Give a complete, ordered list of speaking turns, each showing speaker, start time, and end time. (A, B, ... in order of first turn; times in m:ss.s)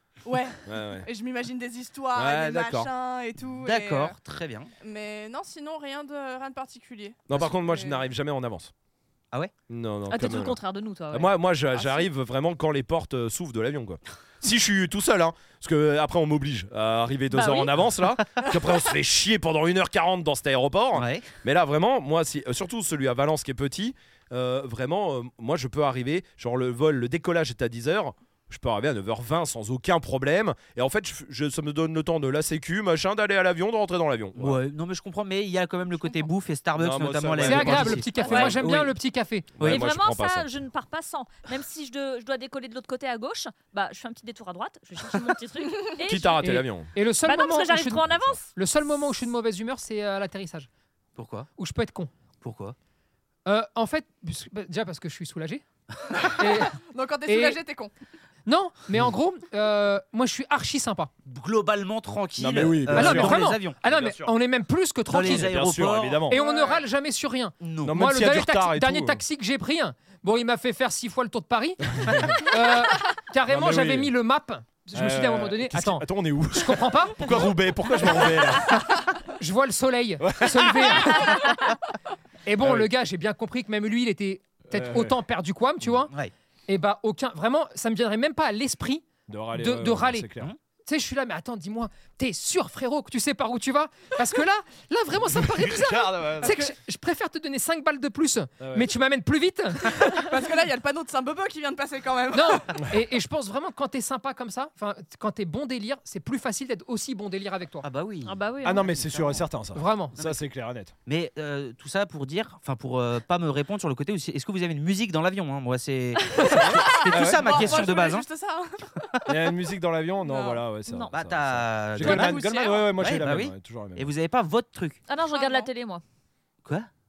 0:00.2-0:04.2 A
0:00.7-0:01.1 B
0:02.2-0:02.9 B
0:03.6-0:04.7 C
0:04.8-0:08.0 A
0:07.3-0:08.7 B
0:09.7-0:10.6 B
0:10.1-0:11.9 D
0:11.1-0:34.6 B
0:17.3-0:17.7 D
0:20.9-0:21.3 C
0:34.4-0:39.0 C
0:36.8-0:38.6 B
0:37.4-0:39.5 E
0:38.2-0:38.5 A
0:38.2-0:38.6 D
0:39.6-0:40.5 B
0:39.6-0:39.9 C
0:39.6-0:46.5 D
0:46.0-0:46.9 B
0:46.4-0:50.7 E
0:47.2-0:48.5 D
0:48.1-0:48.4 B
0:51.2-0:51.5 C
0:51.6-0:52.1 E
0:52.4-0:52.8 C
0:53.5-0:55.6 E
0:56.4-0:57.6 E
0:56.7-0:57.9 A
0:58.5-1:01.1 E
1:01.2-1:03.8 C
1:02.4-1:04.3 B
1:02.9-1:05.5 E
1:05.1-1:06.3 C
1:05.2-1:06.4 B
1:06.3-1:17.6 E
1:06.3-1:06.8 A
1:07.6-1:08.0 C
1:07.8-1:09.2 B
1:11.9-1:12.4 B
1:13.5-1:14.1 B
1:14.9-1:18.8 B
1:18.6-1:21.6 E
1:20.2-1:21.3 B
1:22.5-1:26.1 E
1:22.6-1:22.9 B
1:24.7-1:25.2 B
1:26.7-1:30.3 E
1:29.3-1:30.5 B
1:30.8-1:40.2 E
1:35.3-1:36.7 B
1:38.6-1:38.9 B
1:40.1-1:42.7 A
1:42.3-1:47.9 E
1:47.8-1:49.4 C
1:48.2-1:49.0 D
1:48.6-1:50.9 B
1:49.7-1:50.1 E
1:51.1-1:58.3 C
1:56.4-1:59.2 A
1:56.4-1:57.8 B
1:59.3-2:04.1 B
2:00.2-2:00.6 A
2:00.9-2:01.1 D
2:01.1-2:02.5 C
2:02.0-2:02.9 A
2:03.0-2:05.0 C
2:05.1-2:06.0 D
2:05.3-2:05.7 A